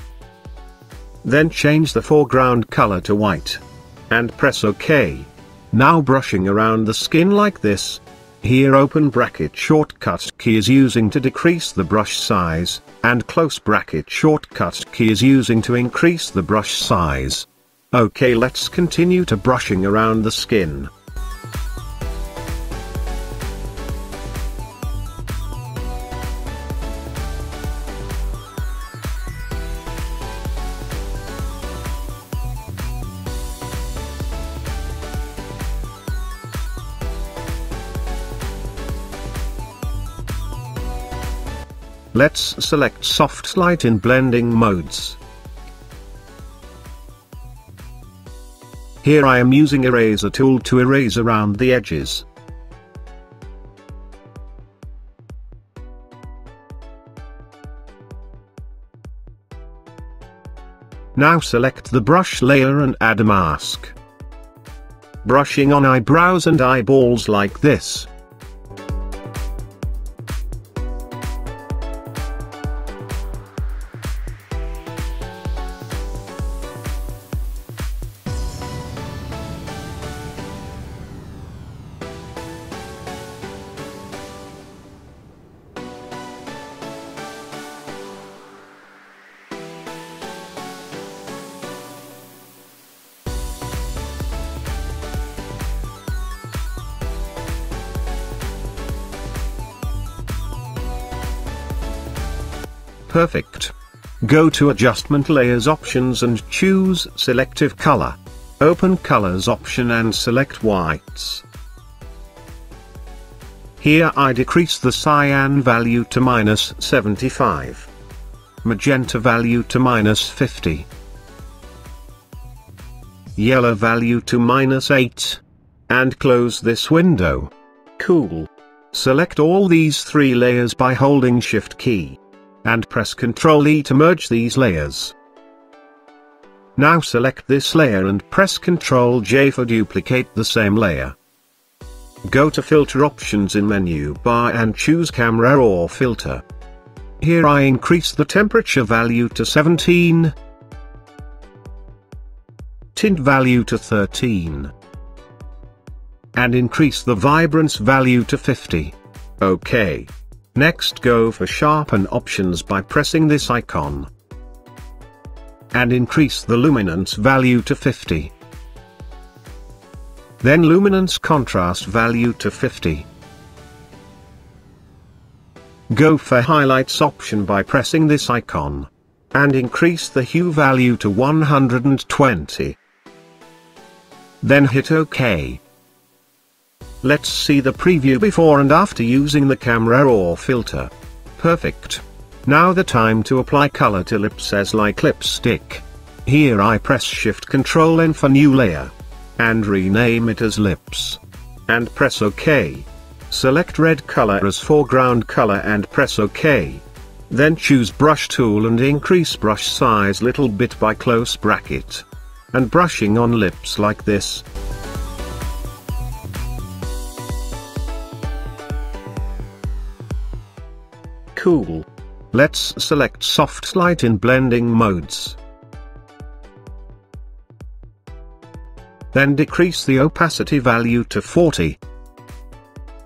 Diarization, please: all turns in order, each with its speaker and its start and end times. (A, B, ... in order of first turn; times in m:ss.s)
0:01.2-0:20.9 A
0:42.1-0:45.2 A
0:49.0-0:52.2 A
1:01.1-1:03.9 A
1:05.2-1:08.1 A
1:43.1-1:51.4 A
1:53.8-1:57.9 A
1:58.6-2:00.9 A
2:03.4-2:15.1 A
2:16.8-2:21.1 A
2:22.2-2:26.4 A
2:27.2-2:30.3 A
2:32.9-2:34.7 A
2:36.3-2:44.1 A
2:45.7-2:48.3 A
2:50.4-2:53.1 A
2:55.9-3:02.8 A
3:04.4-3:05.6 A
3:07.0-3:34.4 A
3:41.3-3:45.4 A
3:49.1-3:51.8 A